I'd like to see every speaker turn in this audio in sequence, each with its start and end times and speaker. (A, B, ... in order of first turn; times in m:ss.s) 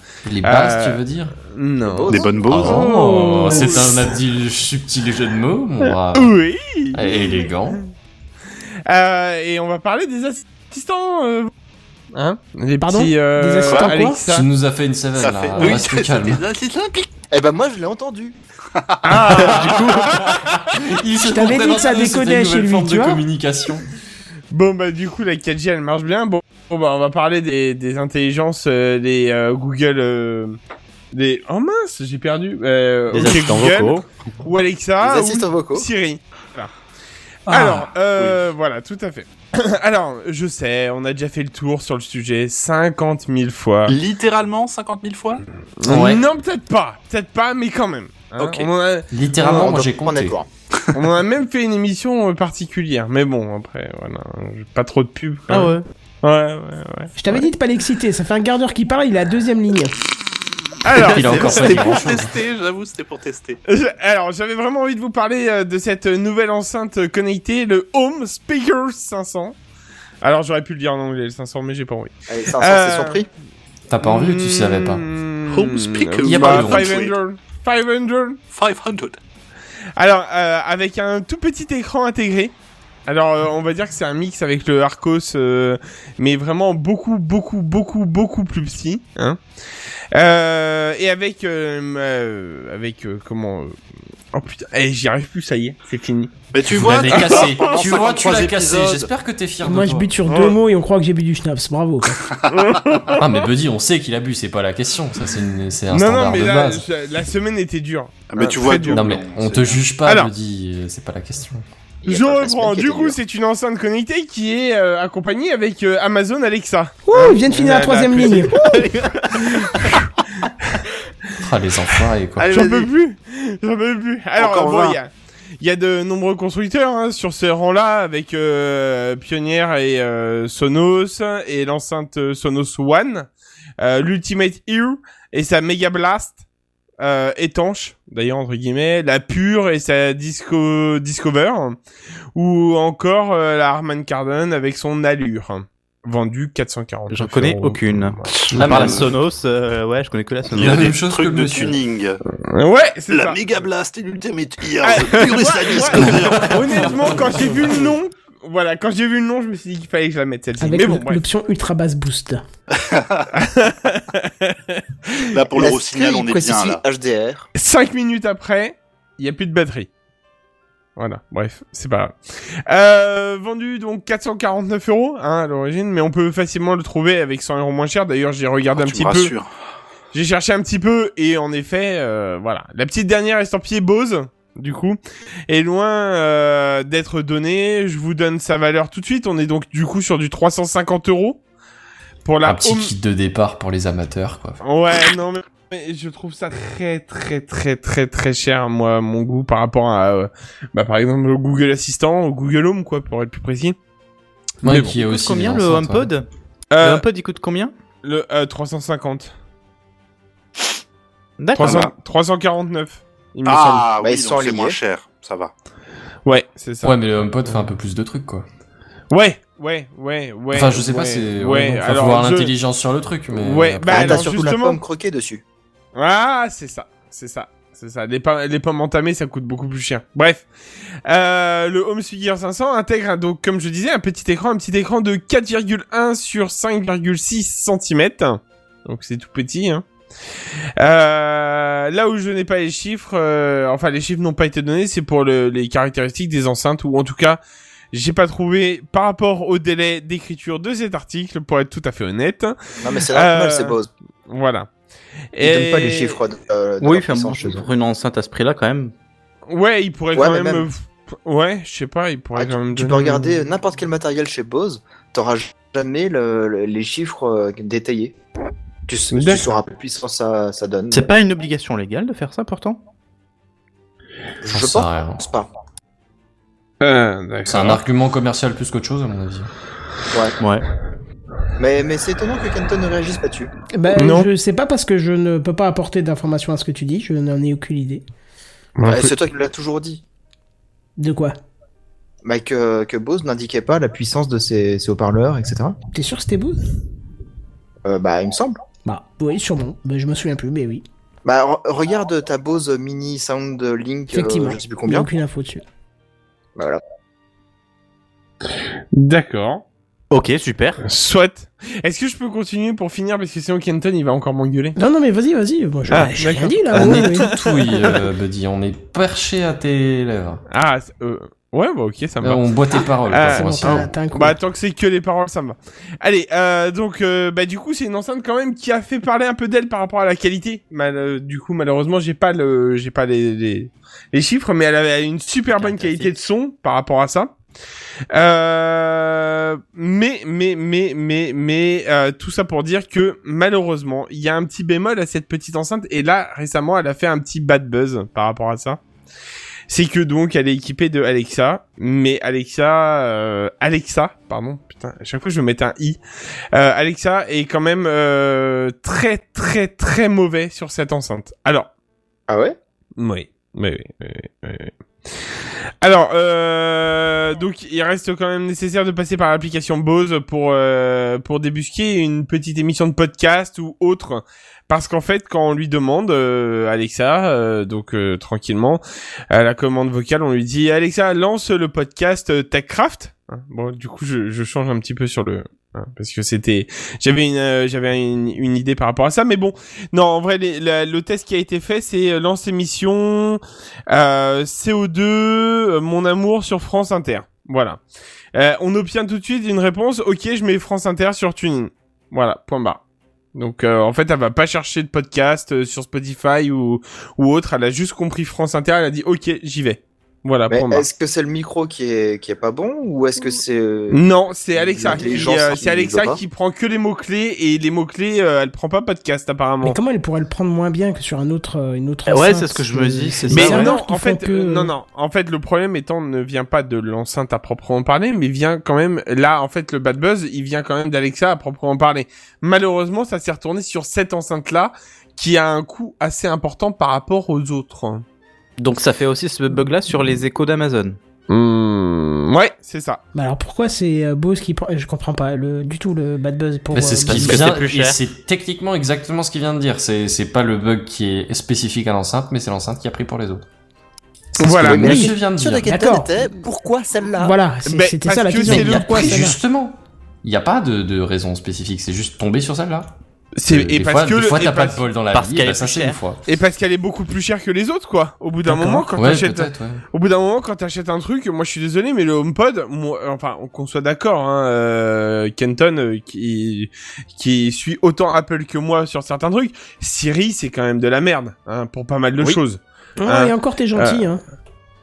0:00.3-0:01.4 A
0:00.4-0:04.2 B
0:01.9-0:02.8 C
0:02.1-0:02.9 D
0:02.5-0:06.4 A
0:05.9-0:07.8 B
0:06.9-0:07.8 A
0:08.9-0:11.5 B
0:12.1-0:14.5 B
0:12.8-0:14.2 E
0:13.7-0:13.9 D
0:14.3-0:16.4 A
0:15.2-0:17.1 D
0:17.3-0:18.4 C
0:18.8-0:19.6 D
0:19.0-0:20.7 B
0:19.6-0:20.0 F
0:20.0-0:23.9 A
0:21.3-0:23.2 E
0:24.5-0:30.6 B
0:31.1-0:36.7 B
0:33.1-0:34.0 F
0:35.0-0:35.9 C
0:37.5-0:44.0 B
0:38.1-0:38.4 D
0:43.9-0:45.4 D
0:45.8-0:49.7 B
0:45.9-0:46.2 A
0:48.4-0:48.7 D
0:49.1-0:50.4 A
0:49.4-0:50.5 C
0:50.9-0:57.1 B
0:55.5-0:55.8 F
0:57.2-1:00.0 E
1:00.8-1:01.9 B
1:01.0-1:02.3 A
1:01.2-1:02.0 F
1:01.3-1:03.6 D
1:03.7-1:09.6 B
1:10.2-1:13.2 B
1:12.3-1:13.3 C
1:13.9-1:15.0 A
1:14.0-1:18.4 B
1:15.5-1:17.2 D
1:16.2-1:17.1 A
1:18.5-1:19.2 D
1:20.0-1:22.5 B
1:23.1-1:29.4 B
1:30.1-1:33.8 B
1:34.3-1:36.4 B
1:36.5-1:39.1 D
1:36.7-1:40.1 A
1:37.1-1:37.8 B
1:39.6-1:42.2 E
1:40.3-1:40.6 B
1:42.2-1:42.6 D
1:42.5-1:43.3 B
1:43.2-1:46.8 A
1:45.9-1:49.1 B
1:48.3-1:49.9 D
1:48.9-1:51.6 A
1:50.0-1:50.3 B
1:52.0-1:53.2 C
1:52.0-2:00.1 B
1:57.1-1:58.6 E
1:58.5-1:59.9 F
2:01.4-2:02.5 A
2:02.4-2:02.9 D
2:02.5-2:13.3 B
2:04.4-2:05.0 D
2:13.8-2:16.4 B
2:17.0-2:21.8 B
2:22.4-2:28.9 B
2:27.1-2:30.9 F
2:28.3-2:29.0 D
2:28.5-2:29.1 A
2:30.5-2:31.8 A
2:30.6-2:32.2 D
2:32.3-2:33.4 B
2:33.1-2:37.4 D
2:34.8-2:41.2 B
2:36.1-2:37.7 A
2:40.6-2:42.4 E
2:42.8-2:43.3 D
2:43.3-2:45.3 B
2:45.3-2:46.8 D
2:45.6-2:47.5 C
2:47.6-2:49.9 B
2:51.0-2:59.3 B
2:58.7-2:59.5 D
3:00.1-3:11.4 B
3:12.2-3:12.9 B
3:12.4-3:14.6 A
3:14.6-3:23.8 B
3:24.6-3:26.1 A
3:24.7-3:26.3 F
3:26.7-3:27.0 B
3:26.8-3:27.7 F
3:28.0-3:29.3 B
3:31.4-3:31.9 F
3:31.6-3:33.9 B
3:33.4-3:35.5 D
3:34.0-3:34.8 C
3:36.2-3:37.7 B
3:36.8-3:38.5 A
3:39.1-3:42.5 B
3:40.5-3:44.3 A
3:43.3-3:44.8 B
3:43.9-3:45.4 C
3:46.0-3:50.5 B
3:51.1-3:59.8 B
4:00.8-4:07.4 B
4:07.9-4:12.6 B
4:12.8-4:13.9 C
4:13.1-4:13.8 B
4:14.3-4:14.7 B
4:15.3-4:16.2 B
4:15.4-4:17.7 C
4:16.8-4:18.9 F
4:19.5-4:23.3 B
4:20.2-4:20.7 C
4:22.4-4:28.2 C
4:28.9-4:31.1 C
4:29.1-4:29.5 B
4:30.9-4:32.8 F
4:34.4-4:35.5 C
4:34.5-4:35.2 A
4:36.8-4:37.8 B
4:37.5-4:39.5 A
4:40.4-4:40.7 F
4:41.6-4:43.5 C
4:43.7-4:48.0 E
4:44.0-4:44.3 B
4:48.8-4:49.1 B
4:48.8-4:50.0 C
4:51.0-4:51.4 E
4:52.2-4:55.8 C
4:55.9-4:56.6 E
4:57.8-4:58.6 C
4:58.9-5:00.8 E
5:01.2-5:05.1 C
5:04.1-5:05.6 E
5:06.6-5:06.8 C
5:08.9-5:09.6 B
5:10.1-5:10.8 F
5:10.8-5:14.8 B
5:14.8-5:17.3 E
5:15.9-5:17.9 B
5:16.7-5:20.4 A
5:20.5-5:22.4 B
5:22.2-5:23.9 A
5:23.1-5:37.3 B
5:23.2-5:24.4 E
5:35.6-5:36.1 F
5:38.1-5:48.8 B
5:49.7-5:56.0 B
5:56.5-6:01.7 B
6:02.3-6:02.6 C
6:03.0-6:04.7 B
6:05.8-6:37.8 B
6:38.3-6:42.8 B
6:43.4-6:50.8 B
6:50.5-6:56.2 C
6:53.9-6:59.8 B
6:59.6-7:04.7 E
7:02.1-7:03.8 F
7:03.3-7:18.0 B
7:18.6-7:21.0 F
7:21.3-7:23.0 B
7:23.1-7:27.4 E
7:26.7-7:33.4 A
7:27.1-7:28.0 F
7:34.4-7:35.0 B
7:34.4-7:35.7 A
7:34.5-7:37.4 C
7:34.8-7:35.1 E
7:35.7-7:36.1 E
7:37.2-7:39.4 E
7:37.6-7:39.3 B
7:38.5-7:42.9 A
7:43.4-7:44.8 B
7:43.5-7:46.2 A
7:45.1-7:46.0 F
7:46.3-8:04.1 B
7:48.5-7:49.8 A
8:03.0-8:04.2 E